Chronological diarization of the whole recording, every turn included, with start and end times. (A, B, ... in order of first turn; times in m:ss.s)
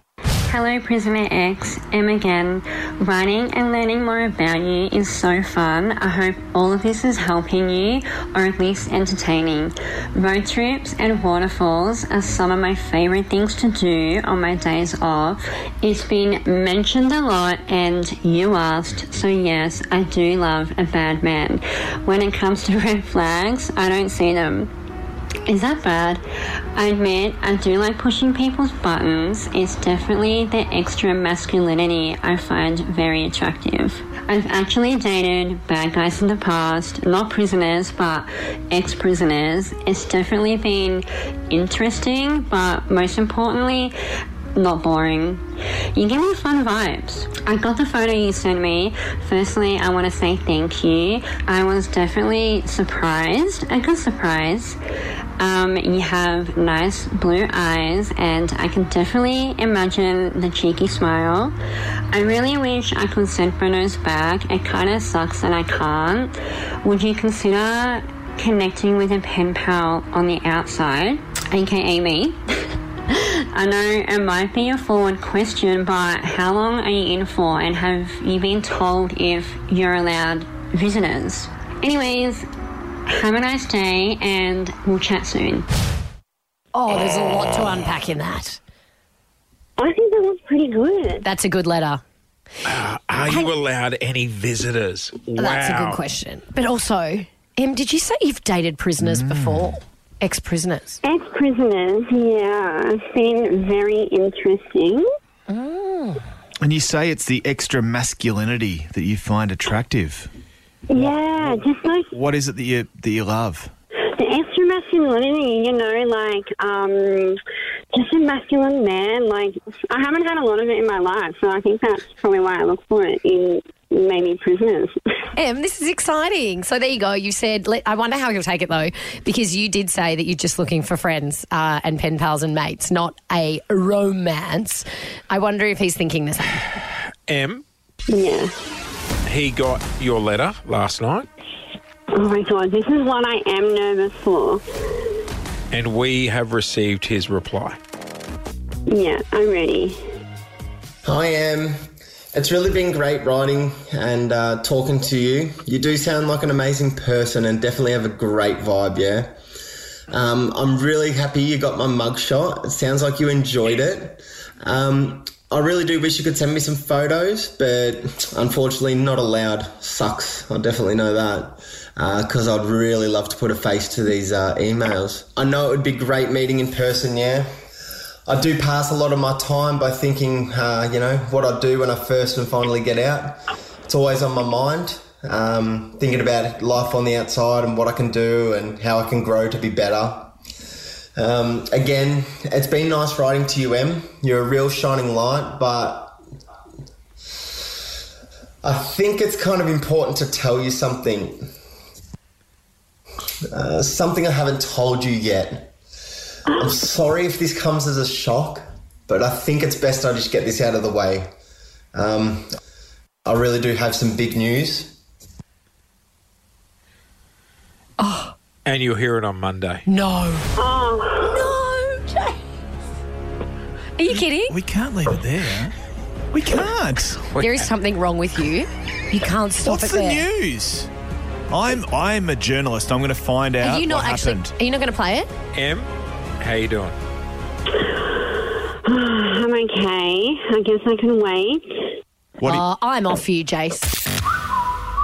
0:00.5-0:24.7 A
0:25.5-0:26.2 A
0:26.8-0:43.9 A
0:44.5-0:54.8 A
0:55.4-1:01.5 A
1:02.1-1:12.4 A
1:13.1-1:22.4 A
1:23.1-1:25.6 A
1:26.7-1:28.6 B
1:29.8-1:31.2 C
1:31.2-1:32.0 B
1:32.6-1:36.0 D
1:35.4-1:41.0 B
1:39.0-1:39.8 E
1:41.0-1:45.0 C
1:45.5-1:46.2 B
1:46.6-1:50.3 E
1:50.9-1:52.1 C
1:51.0-1:53.7 E
1:54.2-1:57.4 C
1:57.9-2:04.9 C
2:05.4-2:16.7 B
2:17.3-2:17.6 D
2:18.1-2:18.5 C
2:19.2-2:21.3 D
2:22.1-2:24.6 C
2:25.7-2:27.8 D
2:28.9-2:30.0 C
2:31.0-2:39.4 F
2:40.1-2:57.5 F
2:58.3-3:10.3 F
3:11.2-3:16.2 F
3:18.6-3:21.4 F
3:23.5-3:25.7 F
3:26.5-3:31.3 F
3:31.9-3:32.5 F
3:33.2-3:35.0 F
3:38.0-3:38.3 B
3:38.6-3:39.8 D
3:39.9-3:40.5 B
3:40.6-3:41.4 C
3:41.3-3:42.4 B
3:44.0-3:44.6 B
3:44.4-3:45.7 E
3:46.3-3:47.2 E
3:47.3-3:47.6 D
3:47.4-3:50.3 B
3:49.6-3:50.9 E
3:51.5-3:54.5 E
3:53.6-3:55.3 B
3:55.5-3:55.9 D
3:56.4-3:56.9 D
3:58.8-4:01.6 C
4:02.4-4:02.6 E
4:02.4-4:03.9 B